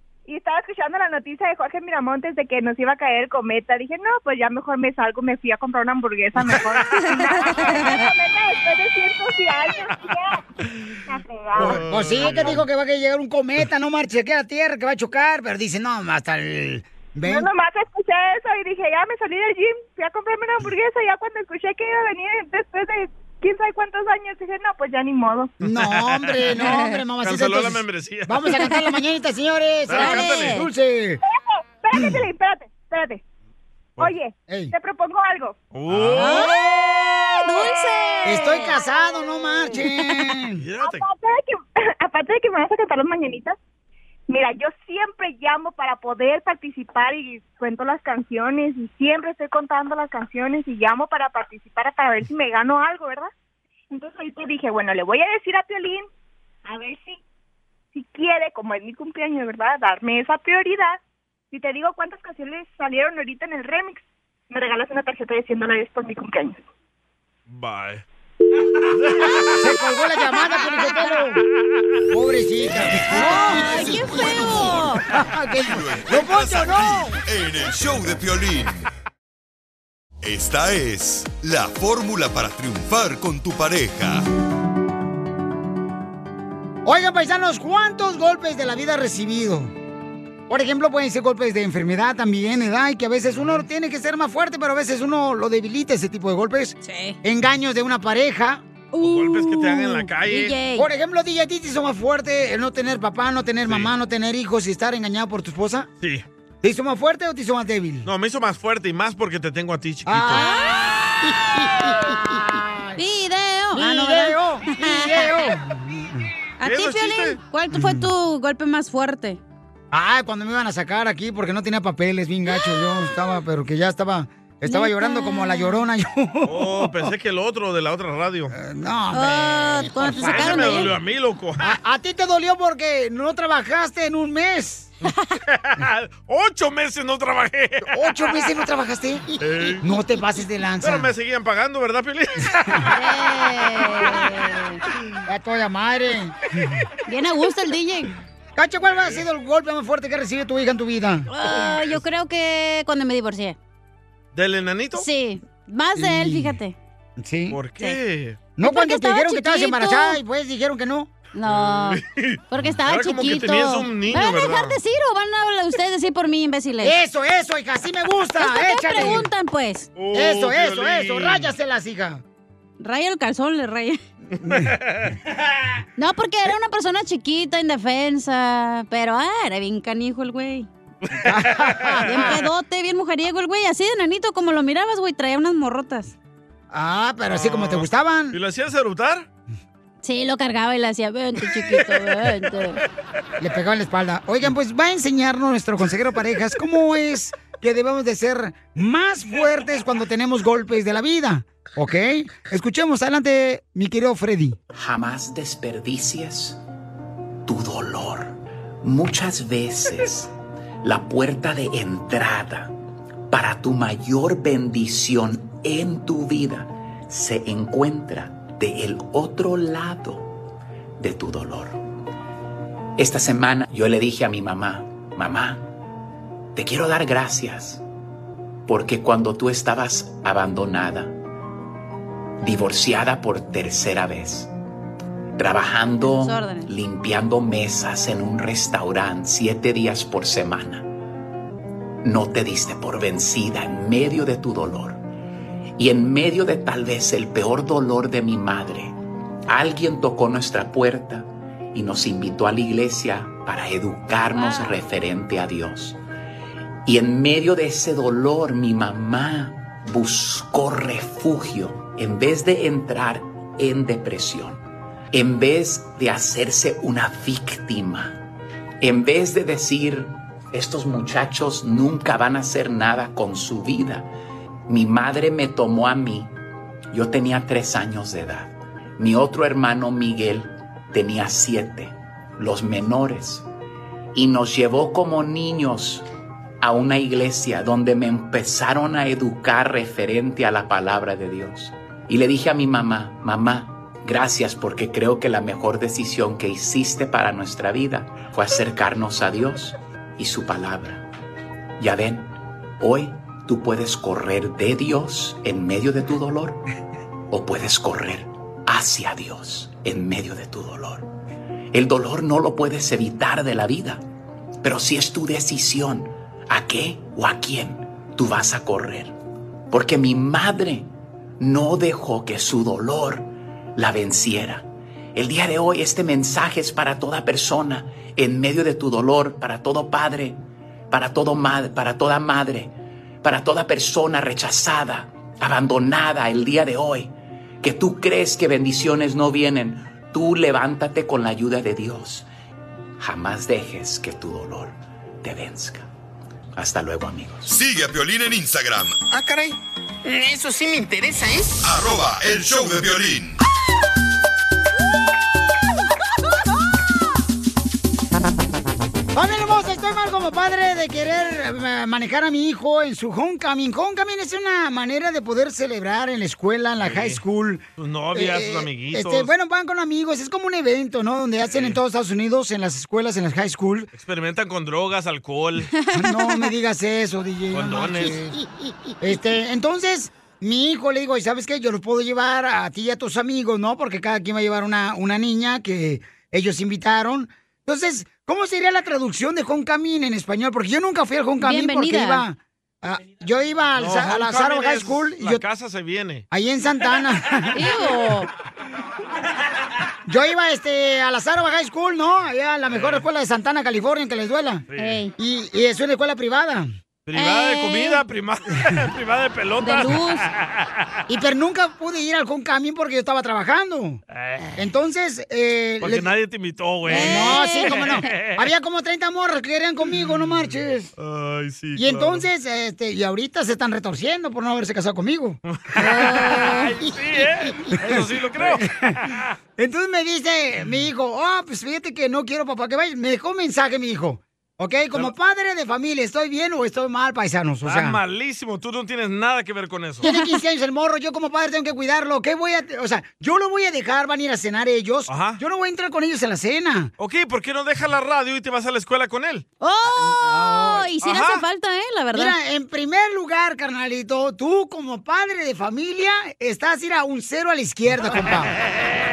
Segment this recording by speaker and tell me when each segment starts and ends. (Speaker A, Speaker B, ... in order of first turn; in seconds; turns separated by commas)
Speaker A: 0.3-10.4, Speaker B: 7.0-7.9, Speaker A: 11.1-12.5, Speaker C: 11.6-12.6, Speaker D: 11.6-17.5, Speaker A: 17.2-25.5, Speaker C: 25.6-26.5, Speaker D: 25.6-31.2, Speaker B: 26.6-27.0, Speaker C: 27.2-28.6, Speaker C: 29.9-30.6, Speaker B: 29.9-30.7, Speaker A: 31.2-33.2, Speaker D: 31.9-32.2, Speaker A: 34.0-35.5, Speaker D: 34.5-34.7, Speaker C: 35.7-36.7, Speaker D: 35.9-36.5, Speaker B: 36.2-38.8, Speaker D: 38.2-40.6, Speaker B: 39.7-40.0, Speaker C: 40.6-41.0, Speaker A: 40.8-43.6, Speaker A: 44.3-53.3, Speaker A: 53.9-56.1, Speaker A: 56.7-57.2, Speaker A: 58.0-61.0, Speaker A: 61.5-66.6, Speaker C: 67.5-68.0, Speaker B: 69.2-69.6, Speaker D: 69.5-71.4, Speaker B: 70.3-70.8, Speaker D: 72.1-77.2, Speaker B: 73.2-75.0, Speaker E: 73.3-74.9, Speaker E: 75.7-78.9, Speaker E: 80.2-84.2, Speaker D: 86.8-89.7, Speaker D: 90.5-98.6, Speaker B: 96.8-97.2, Speaker B: 98.9-100.9, Speaker C: 99.0-100.6, Speaker D: 100.8-105.9, Speaker C: 103.7-103.9, Speaker D: 106.6-108.1, Speaker C: 108.0-110.5, Speaker D: 110.1-113.0, Speaker B: 110.3-110.8, Speaker B: 113.0-115.3, Speaker D: 113.7-116.3, Speaker B: 116.6-119.4, Speaker C: 116.6-117.4, Speaker D: 117.7-118.1, Speaker D: 119.9-127.1, Speaker B: 124.7-125.8, Speaker C: 126.5-128.6, Speaker D: 128.5-130.9, Speaker B: 129.1-130.9, Speaker C: 130.2-131.8, Speaker D: 131.6-134.9, Speaker C: 135.5-137.9, Speaker D: 137.9-141.1, Speaker C: 139.4-139.8, Speaker C: 140.8-143.0, Speaker B: 142.9-144.8, Speaker D: 145.3-146.8, Speaker B: 147.1-148.1, Speaker D: 148.6-151.3, Speaker C: 148.9-149.2, Speaker B: 151.3-153.6, Speaker C: 151.7-152.0, Speaker C: 154.3-155.1, Speaker B: 154.9-156.8, Speaker D: 155.9-156.6, Speaker D: 157.2-157.6, Speaker C: 157.5-158.4, Speaker D: 158.6-161.1, Speaker B: 158.6-160.2, Speaker B: 161.3-166.9, Speaker C: 161.4-164.8, Speaker D: 166.8-169.3, Speaker B: 168.4-169.9, Speaker C: 170.0-171.5, Speaker D: 170.1-172.2, Speaker B: 172.8-174.0, Speaker D: 174.4-174.7, Speaker C: 174.5-175.2, Speaker B: 176.0-180.7, Speaker C: 181.1-182.3, Speaker D: 181.2-182.2, Speaker B: 182.1-186.1, Speaker D: 186.7-188.4, Speaker C: 187.3-189.3, Speaker B: 190.0-192.8, Speaker D: 193.4-204.6, Speaker F: 204.8-206.6, Speaker F: 207.4-210.3, Speaker F: 210.8-212.8, Speaker F: 213.3-220.4, Speaker F: 221.0-221.8, Speaker F: 223.0-225.7, Speaker F: 226.6-227.8, Speaker F: 228.7-231.2, Speaker F: 232.4-234.5, Speaker F: 235.4-240.9, Speaker B: 236.0-236.7, Speaker F: 242.0-245.0, Speaker F: 245.8-248.9, Speaker F: 249.5-256.0, Speaker B: 254.3-254.8, Speaker F: 256.9-268.2, Speaker F: 268.8-274.1, Speaker F: 274.7-276.4, Speaker F: 276.9-283.5, Speaker F: 284.1-286.1, Speaker F: 286.6-301.0, Speaker F: 301.8-306.6, Speaker F: 307.3-311.1, Speaker F: 311.7-314.0, Speaker F: 314.6-319.1, Speaker F: 319.7-342.3, Speaker F: 343.0-345.9, Speaker F: 346.6-347.6, Speaker E: 347.5-349.0, Speaker E: 351.6-353.4, Speaker D: 359.1-373.9, Speaker C: 366.8-367.2, Speaker C: 367.8-369.3, Speaker C: 371.4-371.8, Speaker C: 373.9-375.7, Speaker B: 375.8-376.5, Speaker D: 375.9-378.4, Speaker C: 377.5-378.3, Speaker D: 379.0-395.4, Speaker B: 391.4-392.2, Speaker C: 393.8-396.2, Speaker D: 396.3-397.7, Speaker B: 397.6-398.3, Speaker D: 400.1-404.6, Speaker C: 402.7-403.1, Speaker C: 404.7-405.0, Speaker B: 404.8-405.1, Speaker D: 405.2-406.7, Speaker C: 407.1-410.7, Speaker B: 407.1-408.0, Speaker B: 409.6-410.3, Speaker D: 411.1-414.0, Speaker C: 414.2-414.5, Speaker D: 414.6-416.1, Speaker C: 415.8-418.4, Speaker B: 416.9-417.9, Speaker D: 416.9-420.9, Speaker C: 420.0-422.3, Speaker D: 421.8-426.0, Speaker C: 425.5-429.3, Speaker B: 425.8-426.7, Speaker D: 426.8-428.9, Speaker D: 429.6-438.0, Speaker C: 437.6-440.1, Speaker D: 440.0-446.9, Speaker B: 440.0-440.4, Speaker C: 445.1-445.4, Speaker C: 447.0-449.4, Speaker B: 449.6-452.4, Speaker D: 449.9-450.9, Speaker C: 451.0-451.4, Speaker D: 452.1-458.5